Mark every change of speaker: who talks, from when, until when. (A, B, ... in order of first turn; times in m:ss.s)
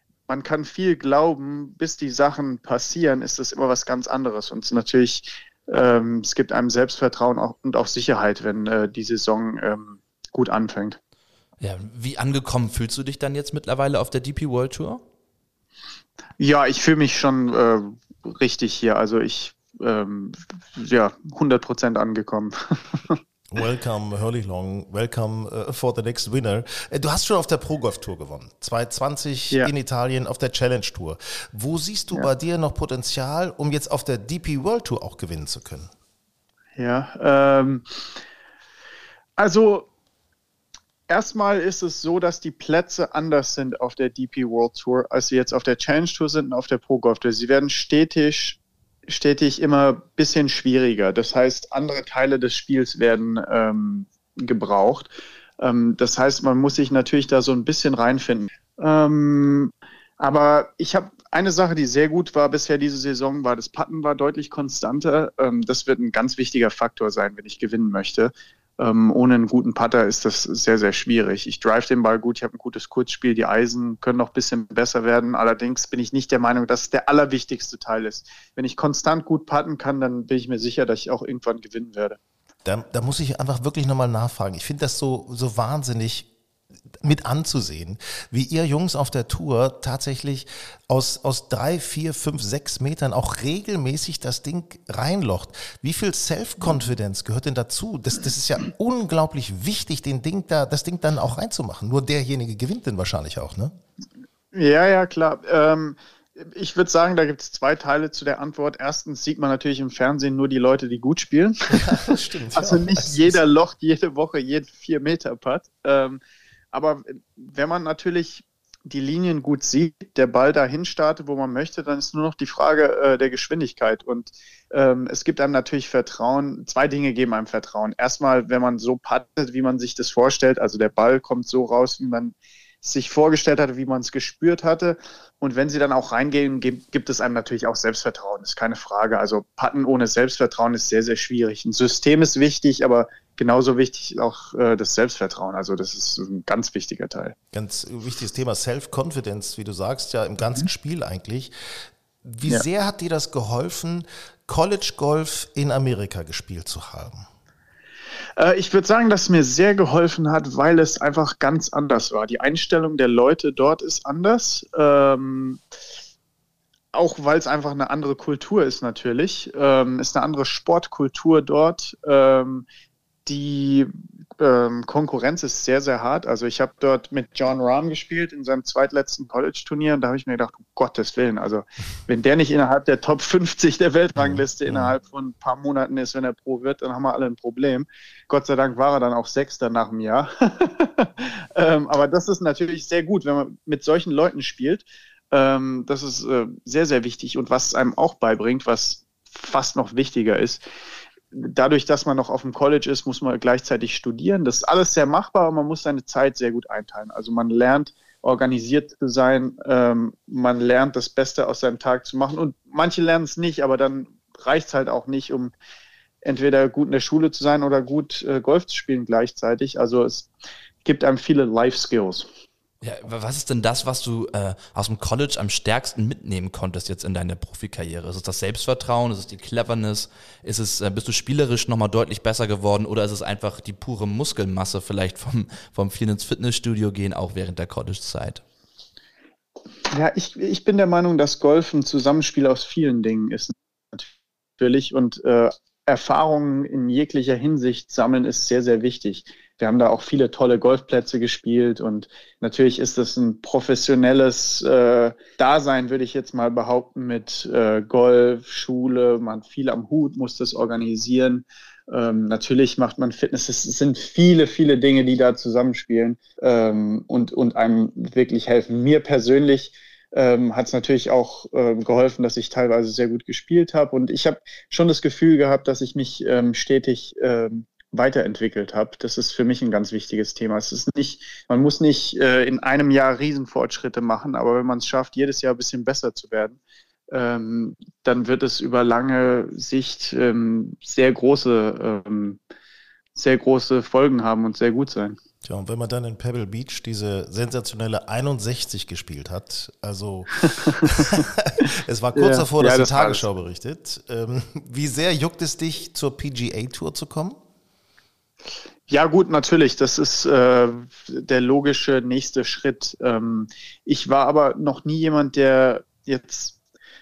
0:00.3-0:11.0 A
0:11.6-0:15.0 B
0:16.4-0:23.2 A
0:23.5-0:35.9 C
0:36.8-0:38.1 A
0:39.4-0:39.9 A
0:41.1-1:22.2 A
1:22.6-1:26.3 C
1:27.0-1:43.7 C
1:44.5-2:27.4 A
1:51.7-1:53.4 C
2:27.5-2:31.5 C
2:32.2-2:37.3 C
2:38.4-2:45.6 A
2:46.9-2:52.7 A
2:53.3-3:20.6 A
3:21.3-3:35.5 A
3:36.2-3:40.3 A
3:40.8-3:42.3 A
3:42.8-3:58.4 B
3:59.9-4:46.6 A
4:47.1-4:52.4 A
4:53.2-4:55.2 A
4:55.4-5:07.4 C
5:00.7-5:01.2 A
5:02.2-5:03.3 A
5:08.9-5:16.6 A